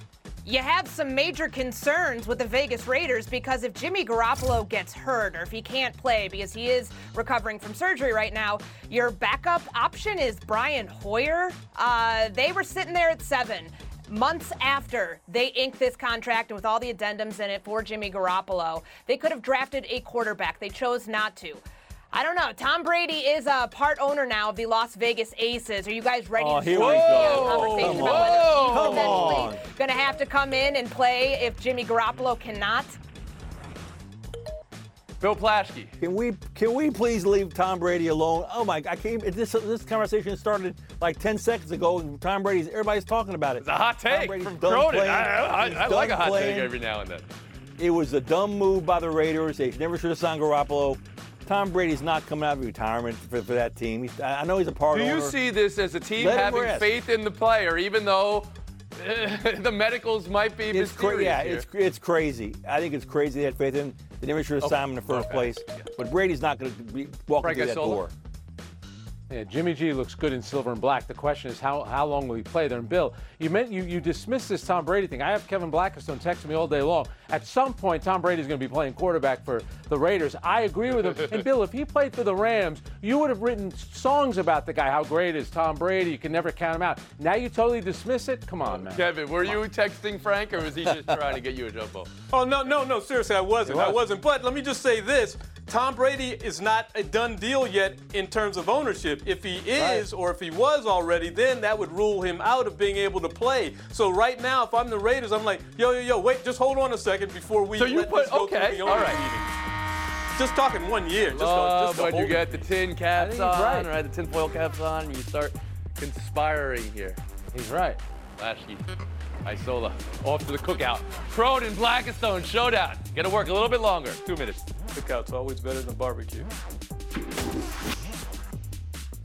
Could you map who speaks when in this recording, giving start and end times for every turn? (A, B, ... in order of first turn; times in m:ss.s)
0:00.4-0:33.0 A
0:26.3-0:29.6 B
0:26.7-0:29.5 C
0:35.2-0:36.0 C
0:36.0-0:46.7 B
0:43.6-0:47.2 C
0:47.8-0:55.4 B
0:54.9-1:01.6 C
0:56.2-0:56.9 B
1:00.7-1:08.1 B
1:04.6-1:05.9 C
1:07.4-1:08.1 C
1:09.3-1:29.0 D
1:28.7-1:32.1 C
1:32.3-1:49.5 E
1:47.8-1:49.2 C
1:50.4-1:52.6 E
1:51.3-1:57.2 C
1:53.2-1:53.9 D
1:57.5-1:58.0 D
1:58.4-1:58.9 C
1:59.4-2:04.6 C
2:04.9-2:06.5 E